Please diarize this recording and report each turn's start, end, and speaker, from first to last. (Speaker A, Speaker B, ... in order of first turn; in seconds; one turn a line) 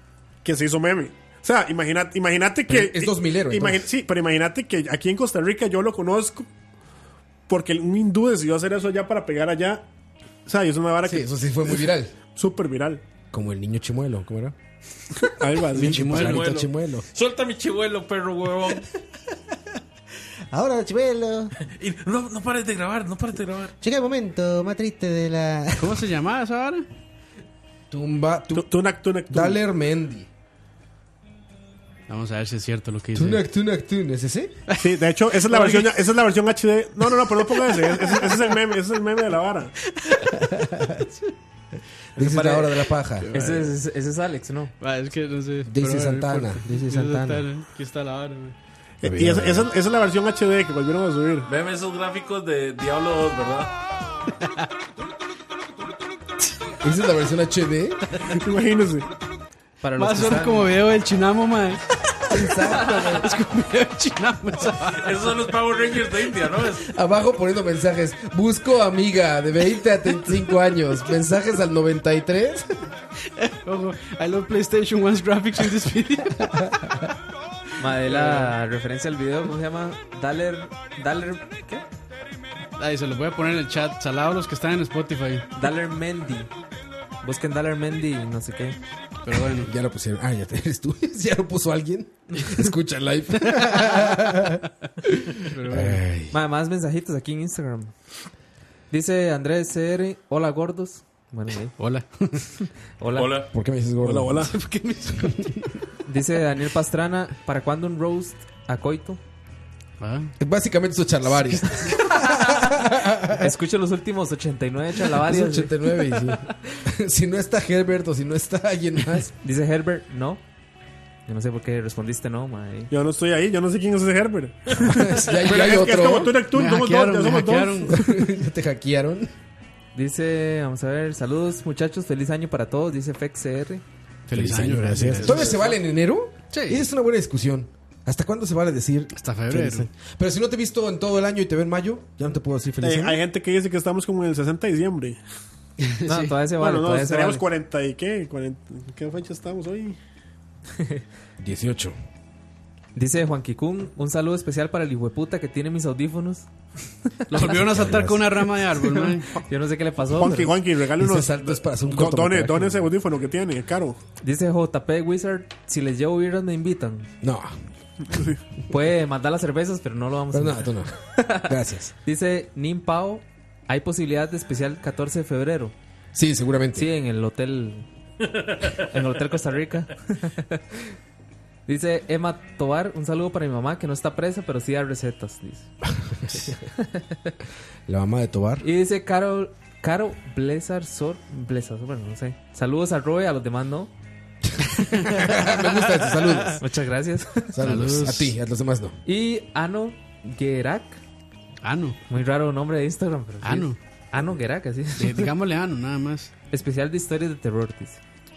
Speaker A: 0.4-6.5
Speaker B: 2.7-3.9
Speaker A: 7.5-9.8
Speaker A: 10.4-13.0
Speaker B: 11.0-12.1
Speaker B: 13.3-14.5
Speaker A: 15.2-16.4
Speaker B: 15.7-17.1
Speaker C: 15.8-16.5
Speaker D: 16.1-18.9
Speaker E: 20.5-21.5
Speaker D: 21.7-23.7
Speaker E: 23.8-26.0
Speaker C: 25.8-26.8
Speaker B: 27.9-28.7
Speaker A: 28.5-29.6
Speaker B: 29.3-30.3
Speaker C: 32.1-33.4
Speaker B: 33.1-34.6
Speaker C: 34.7-34.9
Speaker A: 34.8-39.7
Speaker C: 35.5-36.0
Speaker C: 37.4-38.4
Speaker C: 39.9-40.4
Speaker B: 40.4-41.0
Speaker B: 42.1-43.2
Speaker F: 42.2-42.7
Speaker C: 43.2-43.7
Speaker F: 43.3-44.7
Speaker C: 44.8-48.5
Speaker B: 45.6-47.4
Speaker A: 49.0-51.5
Speaker B: 49.0-49.7
Speaker D: 51.5-53.7
Speaker C: 54.4-54.7
Speaker B: 56.8-58.0
Speaker A: 58.3-59.1
Speaker F: 59.8-60.8
Speaker C: 60.0-65.2
Speaker B: 62.3-63.3
Speaker D: 65.0-66.8
Speaker B: 66.8-72.7
Speaker C: 73.3-76.7
Speaker F: 77.8-81.8
Speaker C: 78.0-78.5
Speaker C: 82.8-85.5
Speaker F: 85.5-86.5
Speaker F: 87.2-88.8
Speaker C: 89.2-89.7
Speaker B: 89.3-96.3
Speaker C: 93.5-93.9
Speaker C: 95.4-96.0
Speaker F: 96.3-97.9
Speaker F: 98.9-101.7
Speaker C: 101.8-102.5
Speaker F: 103.0-103.3
Speaker D: 103.2-103.5
Speaker B: 103.5-104.5
Speaker A: 104.0-104.5
Speaker C: 104.5-105.8
Speaker F: 106.1-109.2
Speaker C: 110.0-110.3
Speaker B: 110.4-113.5
Speaker F: 112.0-112.7
Speaker F: 113.3-116.4
Speaker B: 115.1-119.3
Speaker F: 119.4-120.4
Speaker F: 121.3-122.9
Speaker A: 122.9-127.9
Speaker B: 124.8-126.4
Speaker C: 126.5-128.2
Speaker B: 127.9-129.3
Speaker F: 129.9-133.8
Speaker C: 134.3-135.8
Speaker B: 134.3-143.2
Speaker C: 136.5-136.8
Speaker C: 139.1-139.9
Speaker A: 142.8-145.2
Speaker C: 145.8-146.4
Speaker F: 146.0-147.4
Speaker A: 146.6-150.0
Speaker B: 151.4-151.9
Speaker F: 152.9-156.5
Speaker F: 157.3-157.6
Speaker C: 157.3-159.3
Speaker B: 157.4-158.6
Speaker F: 159.3-160.6
Speaker A: 160.1-164.0
Speaker B: 161.0-162.9
Speaker F: 164.2-167.1
Speaker B: 167.2-167.5
Speaker F: 168.7-171.5
Speaker B: 170.3-171.9
Speaker F: 172.0-175.7
Speaker B: 176.1-176.9
Speaker F: 176.7-177.8
Speaker D: 178.3-178.8
Speaker F: 178.7-180.6
Speaker F: 181.7-185.7
Speaker F: 186.7-187.3
Speaker B: 187.9-188.7
Speaker F: 188.6-193.9
Speaker B: 195.0-196.6
Speaker F: 196.6-197.6
Speaker B: 197.5-198.9
Speaker C: 197.6-198.3
Speaker F: 199.1-201.0
Speaker C: 201.6-202.0
Speaker F: 202.1-205.3
Speaker C: 203.4-203.8
Speaker C: 205.0-206.3
Speaker F: 206.5-208.0